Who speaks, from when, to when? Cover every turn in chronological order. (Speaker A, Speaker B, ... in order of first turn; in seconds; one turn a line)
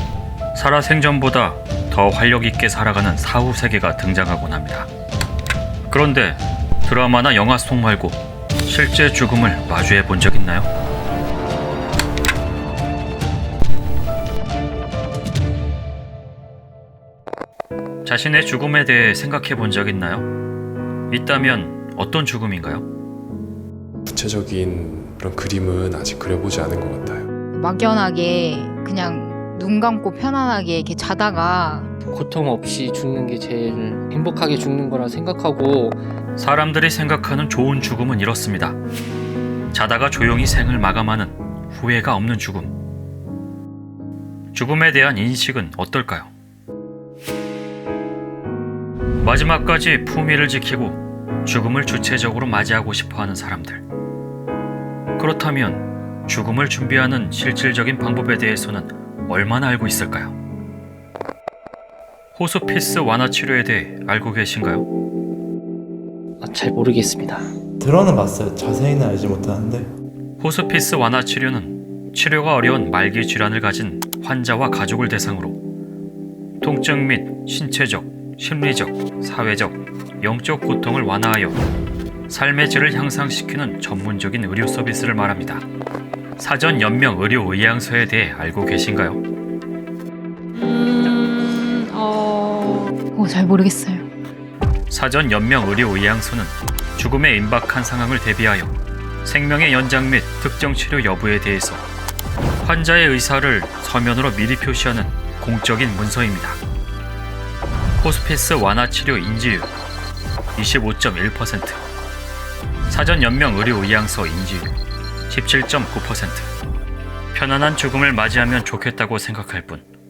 Speaker A: 0.5-4.9
Speaker A: 5.9-10.7
Speaker A: 18.0-20.3
Speaker A: 21.1-22.9
Speaker B: 24.1-27.3
Speaker C: 27.5-31.9
Speaker D: 32.1-36.0
Speaker A: 36.4-38.8
Speaker A: 39.7-42.8
Speaker A: 44.5-46.3
Speaker A: 49.2-53.8
Speaker A: 55.1-60.3
Speaker A: 62.3-64.9
Speaker D: 66.4-67.5
Speaker E: 67.8-69.9
Speaker A: 70.4-75.6
Speaker A: 76.6-81.6
Speaker A: 82.3-85.6
Speaker A: 86.4-89.2
Speaker C: 90.7-94.1
Speaker A: 94.9-101.8
Speaker A: 102.6-106.6
Speaker A: 108.0-109.7
Speaker A: 110.5-111.8
Speaker A: 112.9-114.8
Speaker A: 115.3-116.5
Speaker A: 117.3-119.8